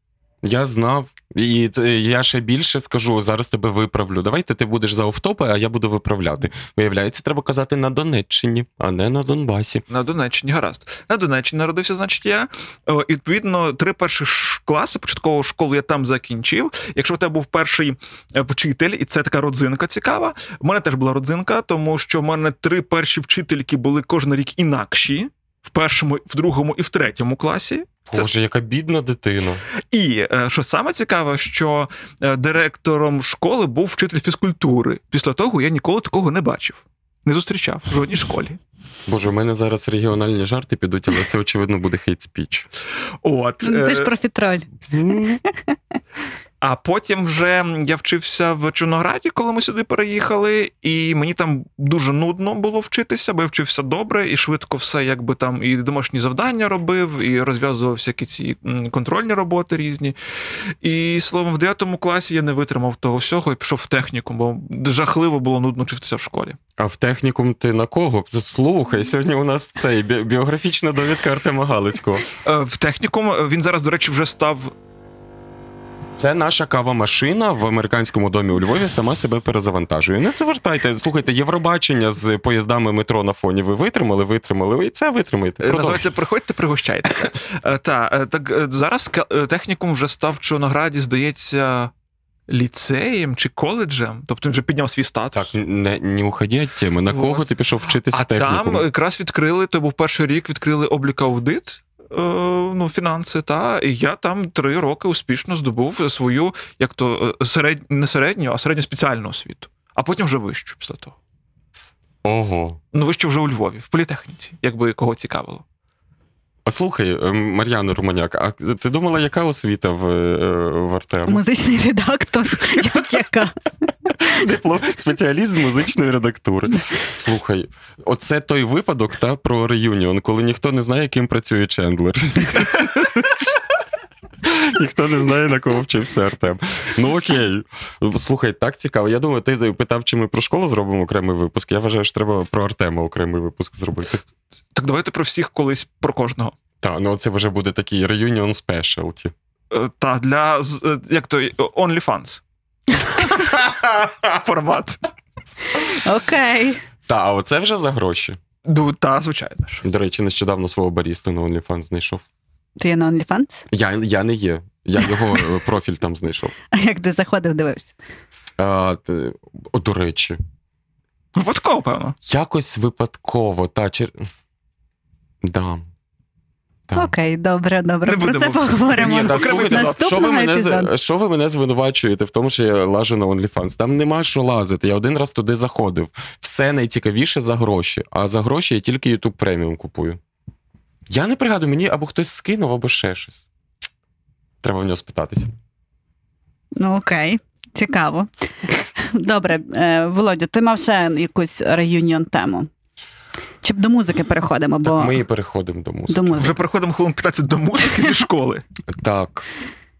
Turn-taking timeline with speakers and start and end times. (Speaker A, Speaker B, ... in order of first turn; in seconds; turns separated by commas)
Speaker A: 0.4-9.8, Speaker B: 9.9-28.3, Speaker A: 28.1-29.6, Speaker B: 29.9-38.6, Speaker A: 39.1-42.7, Speaker B: 43.2-44.1, Speaker C: 43.6-44.7, Speaker A: 44.9-45.4, Speaker B: 46.6-60.1, Speaker B: 60.8-66.6, Speaker A: 66.8-72.2, Speaker B: 72.4-74.7, Speaker A: 76.2-86.1, Speaker B: 85.6-91.9, Speaker B: 92.5-95.5, Speaker A: 95.3-98.8, Speaker B: 97.1-97.4, Speaker B: 98.1-111.2, Speaker A: 112.2-112.8, Speaker B: 112.9-115.6, Speaker A: 116.7-121.4, Speaker C: 121.3-123.6, Speaker A: 124.2-133.6, Speaker A: 134.4-144.2, Speaker B: 144.8-146.5, Speaker A: 146.8-149.3, Speaker B: 149.7-152.4, Speaker A: 153.6-154.1, Speaker B: 154.3-155.0, Speaker C: 156.0-156.8, Speaker A: 157.1-158.4, Speaker B: 158.6-159.8, Speaker A: 159.8-162.2, Speaker C: 162.8-163.6, Speaker A: 163.7-166.5, Speaker C: 166.7-167.9, Speaker A: 168.6-170.4, Speaker B: 171.4-172.2, Speaker A: 172.2-174.2, Speaker A: 175.4-175.9, Speaker C: 176.9-180.9, Speaker B: 178.1-180.1, Speaker A: 179.0-190.2, Speaker A: 191.1-193.4, Speaker A: 194.6-195.5, Speaker C: 196.8-198.3, Speaker C: 199.0-202.7, Speaker C: 203.6-205.2, Speaker A: 204.8-206.6, Speaker C: 206.1-206.5, Speaker B: 206.4-208.6, Speaker A: 208.9-209.5